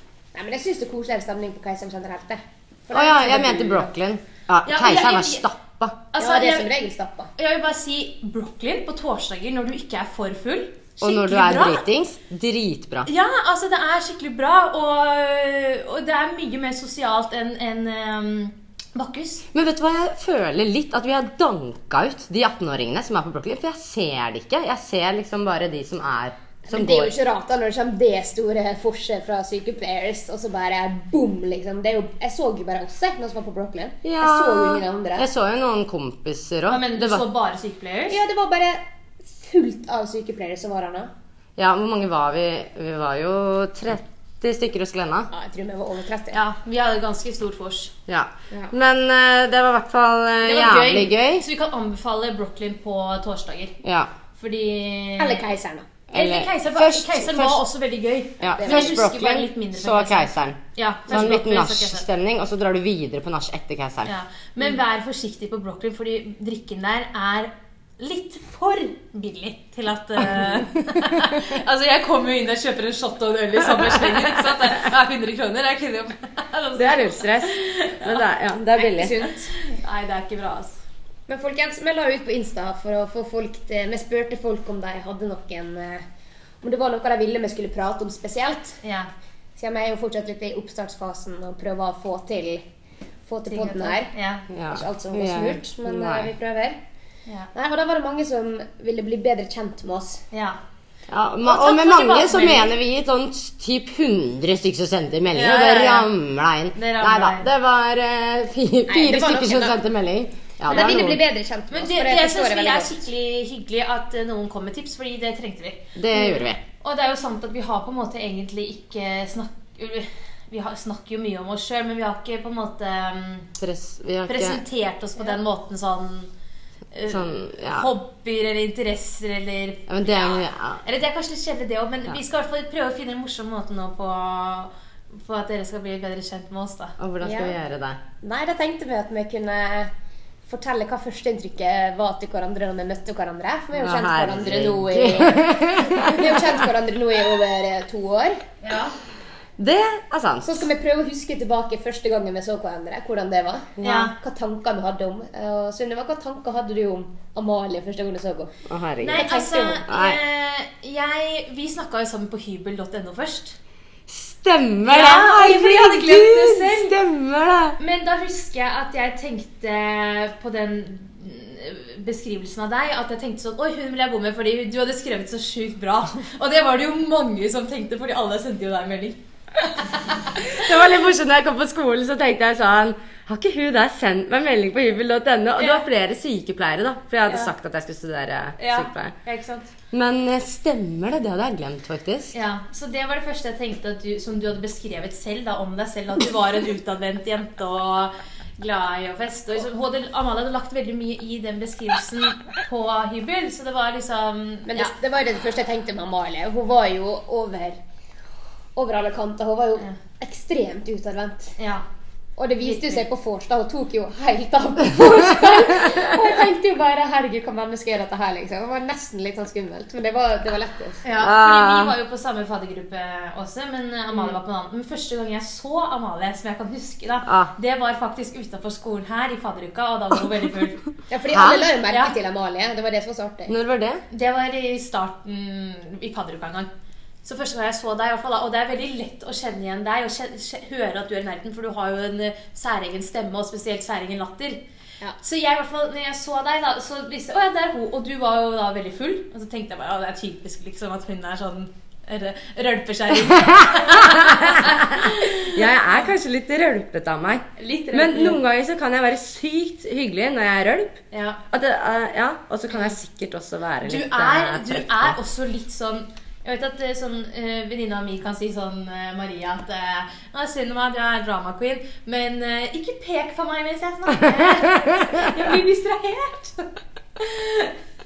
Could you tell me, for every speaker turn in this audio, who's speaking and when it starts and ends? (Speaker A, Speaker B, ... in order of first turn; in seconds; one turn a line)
Speaker A: 0.3-3.9
Speaker B: 2.9-6.0
Speaker C: 4.7-5.5
Speaker C: 6.1-6.7
Speaker A: 6.2-7.3
Speaker C: 7.4-11.8
Speaker B: 11.0-13.1
Speaker C: 13.0-19.5
Speaker B: 19.5-27.1
Speaker A: 26.7-35.3
Speaker B: 34.0-37.2
Speaker C: 36.7-38.2
Speaker A: 38.1-41.1
Speaker B: 41.6-45.3
Speaker A: 45.3-46.4
Speaker C: 46.3-47.9
Speaker B: 48.1-51.5
Speaker C: 50.4-53.8
Speaker B: 53.8-54.1
Speaker C: 54.4-55.4
Speaker A: 55.2-55.9
Speaker B: 56.1-57.6
Speaker C: 56.1-62.0
Speaker B: 58.4-64.1
Speaker A: 58.6-59.0
Speaker C: 64.0-78.2
Speaker B: 71.0-71.3
Speaker B: 73.7-74.6
Speaker B: 76.7-79.2
Speaker A: 78.8-79.5
Speaker C: 79.5-80.8
Speaker A: 81.3-86.0
Speaker A: 86.6-88.8
Speaker C: 88.8-89.1
Speaker A: 89.6-92.6
Speaker A: 93.3-94.1
Speaker C: 93.5-94.4
Speaker B: 94.5-96.3
Speaker A: 94.7-96.8
Speaker A: 97.5-100.2
Speaker C: 100.3-100.6
Speaker B: 101.1-111.2
Speaker C: 101.4-102.7
Speaker C: 105.3-106.1
Speaker C: 106.7-107.5
Speaker A: 108.9-109.8
Speaker A: 110.7-113.0
Speaker C: 110.7-111.0
Speaker C: 111.7-123.5
Speaker B: 116.0-116.6
Speaker B: 123.6-124.6
Speaker C: 124.3-126.3
Speaker C: 126.9-136.9
Speaker B: 127.1-127.9
Speaker B: 129.9-130.8
Speaker B: 137.0-138.0
Speaker A: 137.2-137.6
Speaker A: 138.2-139.9
Speaker A: 140.5-148.4
Speaker B: 143.8-146.6
Speaker C: 148.6-148.9
Speaker B: 149.6-150.7
Speaker A: 150.4-158.6
Speaker B: 153.8-154.1
Speaker C: 153.8-154.1
Speaker B: 158.7-159.2
Speaker C: 159.0-163.6
Speaker A: 159.1-159.8
Speaker B: 159.9-160.2
Speaker B: 164.1-167.8
Speaker C: 164.8-166.9
Speaker C: 167.8-179.9
Speaker B: 180.4-189.1
Speaker C: 185.6-185.8
Speaker C: 187.2-187.5
Speaker C: 188.6-189.7
Speaker B: 189.9-192.3
Speaker C: 192.3-204.9
Speaker A: 204.7-207.8
Speaker A: 208.8-211.6
Speaker C: 211.6-211.8
Speaker A: 212.4-221.0
Speaker C: 212.6-213.0
Speaker C: 221.0-230.8
Speaker B: 221.2-221.9
Speaker B: 227.2-227.5
Speaker A: 231.1-233.5
Speaker B: 231.3-231.7
Speaker C: 231.9-232.1
Speaker B: 233.5-234.0
Speaker C: 234.1-236.7
Speaker C: 237.2-244.6
Speaker C: 245.2-256.0
Speaker B: 253.2-261.0
Speaker C: 257.6-258.4
Speaker C: 261.1-261.4
Speaker B: 261.5-265.2
Speaker C: 263.8-277.7
Speaker B: 274.1-275.3